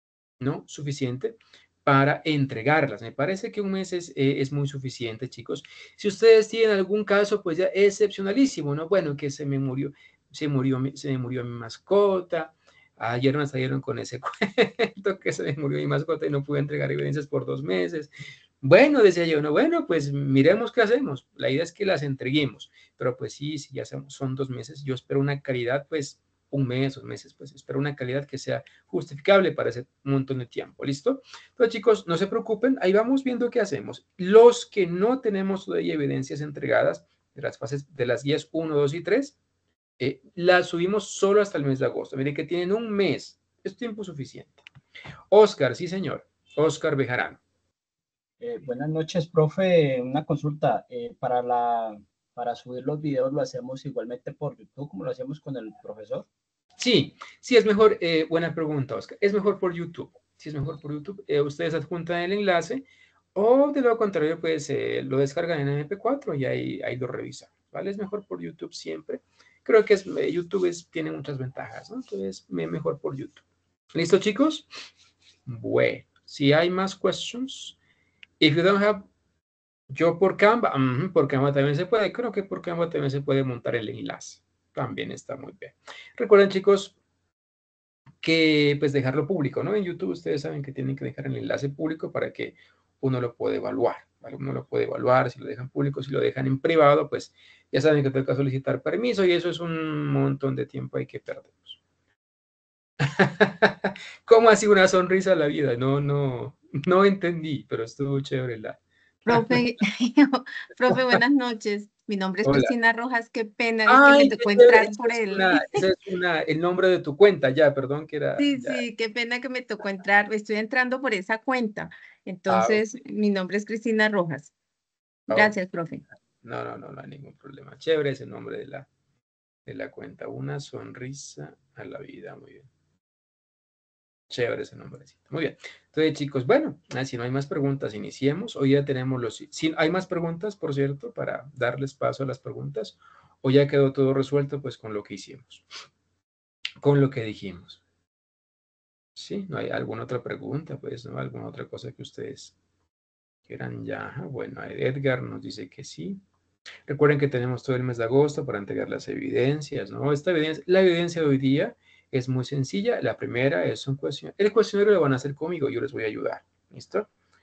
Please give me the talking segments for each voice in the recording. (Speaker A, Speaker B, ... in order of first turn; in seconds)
Speaker A: 0.4-39.4, 40.0-44.6, 45.3-47.4, 56.8-73.4, 73.9-74.7, 75.5-77.8, 78.4-79.1, 79.9-87.0, 88.2-101.8, 103.0-109.6, 110.9-111.2, 112.4-112.7, 113.9-118.8, 122.5-122.8, 125.3-125.5, 126.4-128.9, 129.7-132.7, 134.3-145.7, 146.8-147.8, 149.2-152.5, 153.5-156.2, 156.9-167.1
Speaker B: 48.4-56.3
Speaker C: 109.3-115.8, 118.4-124.5, 125.3-126.0